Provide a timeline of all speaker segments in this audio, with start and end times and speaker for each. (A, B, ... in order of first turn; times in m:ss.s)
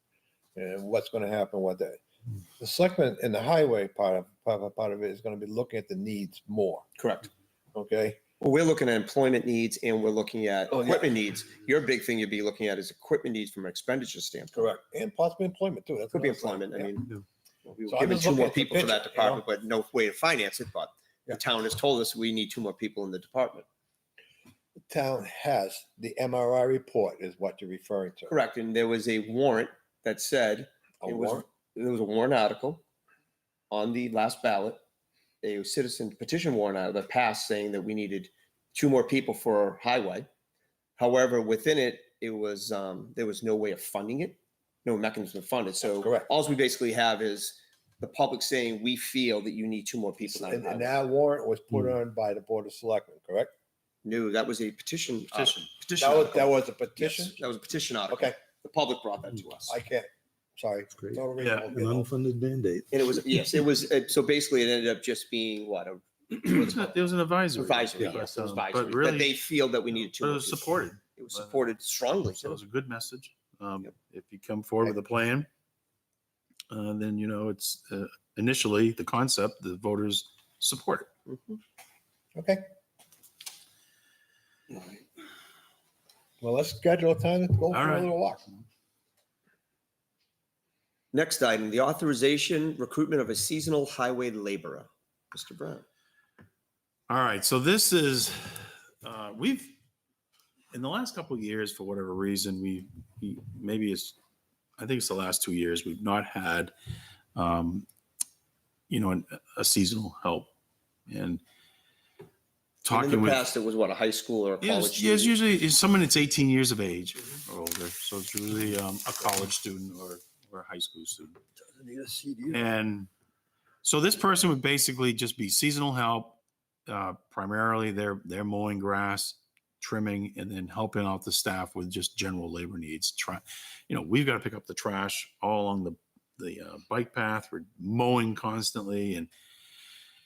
0:00.5-0:02.0 A
0:02.6-0:06.8 A
0:07.0-0:07.3 B
0:07.7-0:08.2 A
0:08.4-0:14.7 B
0:10.7-0:11.1 A
0:14.5-0:16.9 A
0:16.1-0:17.1 B
0:17.7-0:23.6 B
0:17.9-0:19.4 A
0:24.9-0:28.3 A
0:28.3-0:32.8 B
0:31.0-0:31.4 A
0:33.7-0:34.8 B
0:35.4-0:40.3 B
0:41.0-0:51.0 B
0:45.9-0:46.3 A
0:50.2-0:53.5 A
0:54.0-0:59.7 B
0:55.3-0:56.3 C
0:56.0-0:57.4 A
0:58.1-0:58.4 A
0:59.6-1:02.1 A
1:00.9-1:03.6 D
1:01.4-1:01.7 C
1:02.9-1:12.6 B
1:06.5-1:09.4 C
1:09.9-1:11.7 C
1:12.3-1:15.5 C
1:16.7-1:21.1 C
1:21.3-1:21.6 B
1:22.4-1:22.6 A
1:26.4-1:28.4 A
1:27.7-1:28.6 C
1:31.1-1:35.8 B
1:37.1-1:39.8 C
1:40.7-1:44.2 C
1:44.8-1:46.7 C
1:47.3-1:47.8 C
1:48.9-1:50.5 C
1:51.1-1:51.4 C
1:52.8-1:53.5 C
1:52.9-1:55.4 B
1:54.6-2:01.4 C
2:01.6-2:02.6 A
2:02.5-2:03.1 C
2:03.8-2:19.3 C